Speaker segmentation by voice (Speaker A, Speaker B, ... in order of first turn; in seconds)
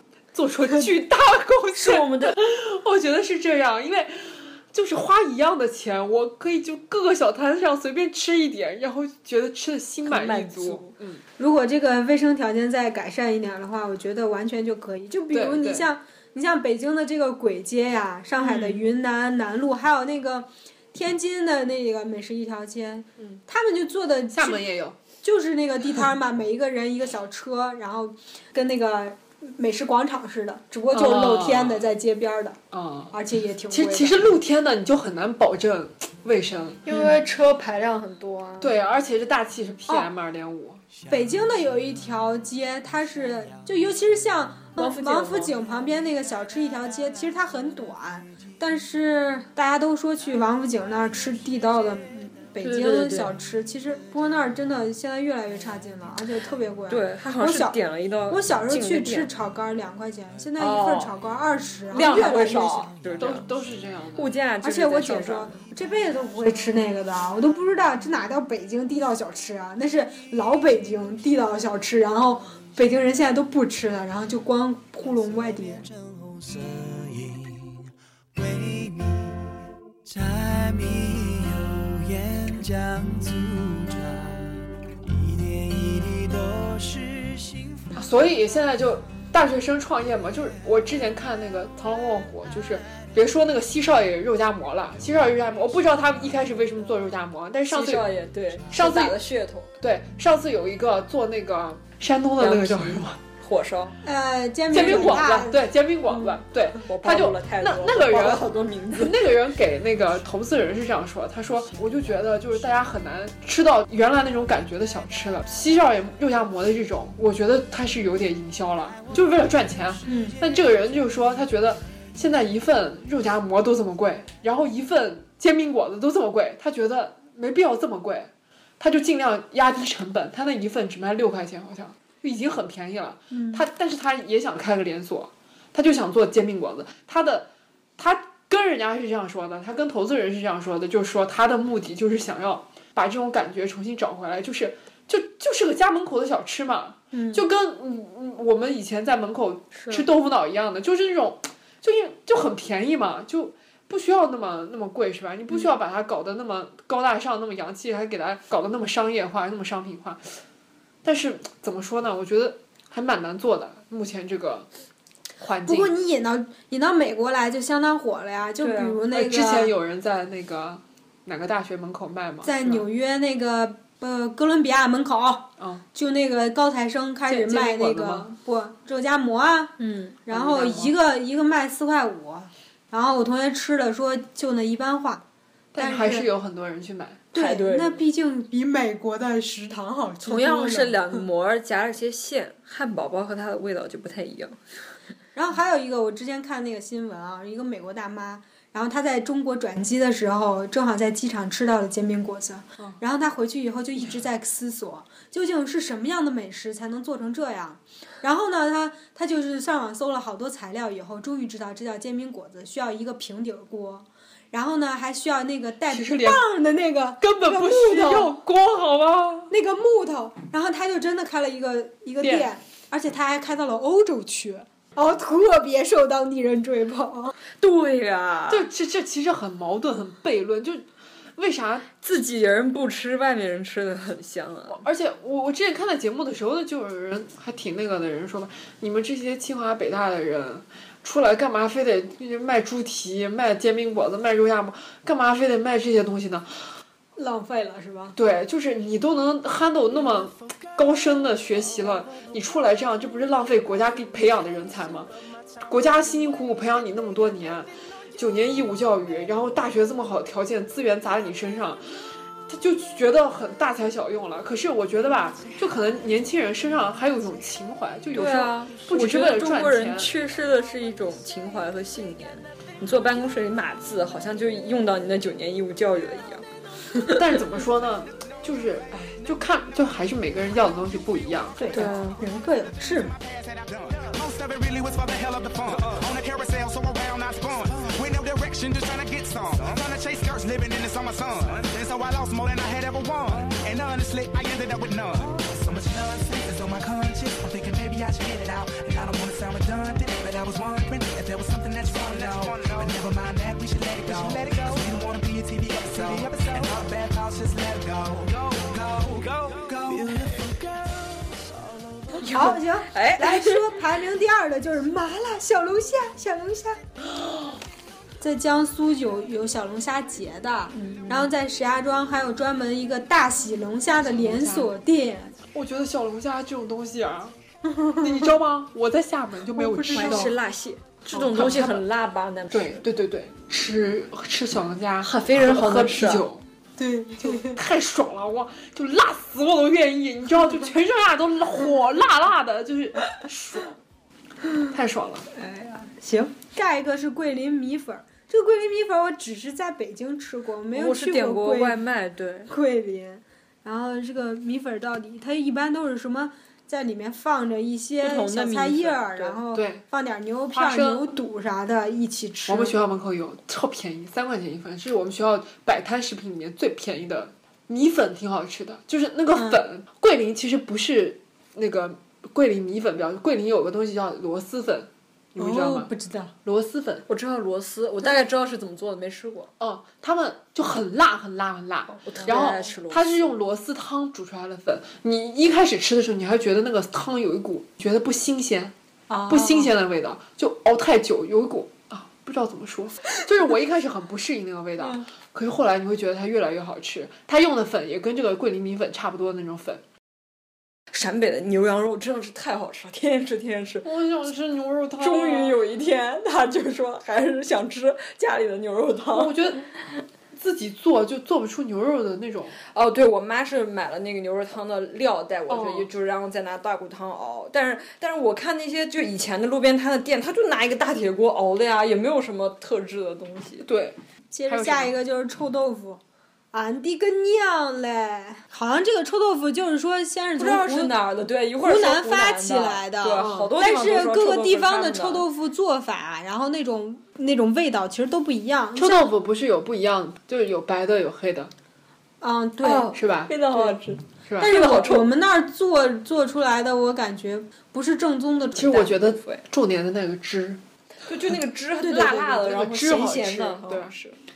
Speaker A: 0.3-11.2, 15.3-15.9, 18.4-18.8, 24.3-25.0, 30.9-31.9, 32.7-33.1, 33.7-37.0, 38.6-40.8, 63.2-64.3, 88.0-98.1, 98.7-99.2, 99.8-103.2, 104.7-160.4, 161.0-164.7, 165.4-165.9, 169.1-172.9, 175.6-175.8, 177.3-178.3, 180.3-180.9, 185.7-187.2, 215.9-216.4, 217.2-219.5, 222.2-222.5, 228.5-231.9, 234.7-246.6, 248.2-270.1, 277.1-281.6, 324.1-324.7, 325.5-327.4, 328.0-330.4, 331.1-331.8, 332.5-336.4, 337.2-343.8, 344.7-345.3, 359.5-359.8, 360.5-361.1, 362.5-375.9, 376.4-377.1, 379.6-388.7, 389.3-399.8, 403.8-405.6, 409.1-409.7, 410.3-412.6, 415.5-415.9, 423.7-424.9, 433.1-433.5, 438.8-441.5, 442.9-443.3, 448.6-450.6, 452.0-453.9
Speaker B: 1.8-2.4, 10.1-10.9, 36.9-38.8, 44.8-45.5, 52.6-53.3, 56.9-59.3, 60.6-61.1, 61.9-63.5, 64.2-65.6, 97.7-99.7, 102.4-104.0, 106.8-109.3, 168.6-169.0, 179.8-180.2, 187.3-188.0, 190.2-194.6, 227.6-228.7, 232.0-234.8, 268.1-276.5, 281.7-282.2, 312.2-313.7, 320.7-321.3, 329.9-332.8, 335.0-336.3, 350.7-352.5, 358.0-359.4, 377.1-379.5, 382.0-383.1, 400.9-403.9, 405.0-409.7, 412.7-423.7, 430.4-435.3, 442.6-445.1, 451.1-454.2
Speaker C: 11.4-24.6, 25.2-32.6, 33.1-34.4, 41.1-57.8, 58.3-62.9, 64.6-75.9, 104.0-105.6, 120.0-120.4, 133.3-133.6, 165.7-169.7, 172.4-185.2, 185.8-186.3, 187.3-191.2, 195.4-218.4, 219.5-227.4, 247.2-248.2, 281.6-283.2, 312.3-316.8, 318.2-325.4, 327.8-328.1, 329.6-330.3, 336.8-337.6, 345.3-351.8, 352.5-362.8, 369.4-369.6, 375.4-376.3, 389.1-389.7, 424.3-426.0, 426.5-430.9, 431.6-439.1, 442.2-442.9, 443.5-443.8, 444.4-449.0, 451.8-452.2
Speaker D: 75.6-79.5, 80.1-87.9, 304.1-304.6, 309.8-312.2
Speaker E: 283.2-310.2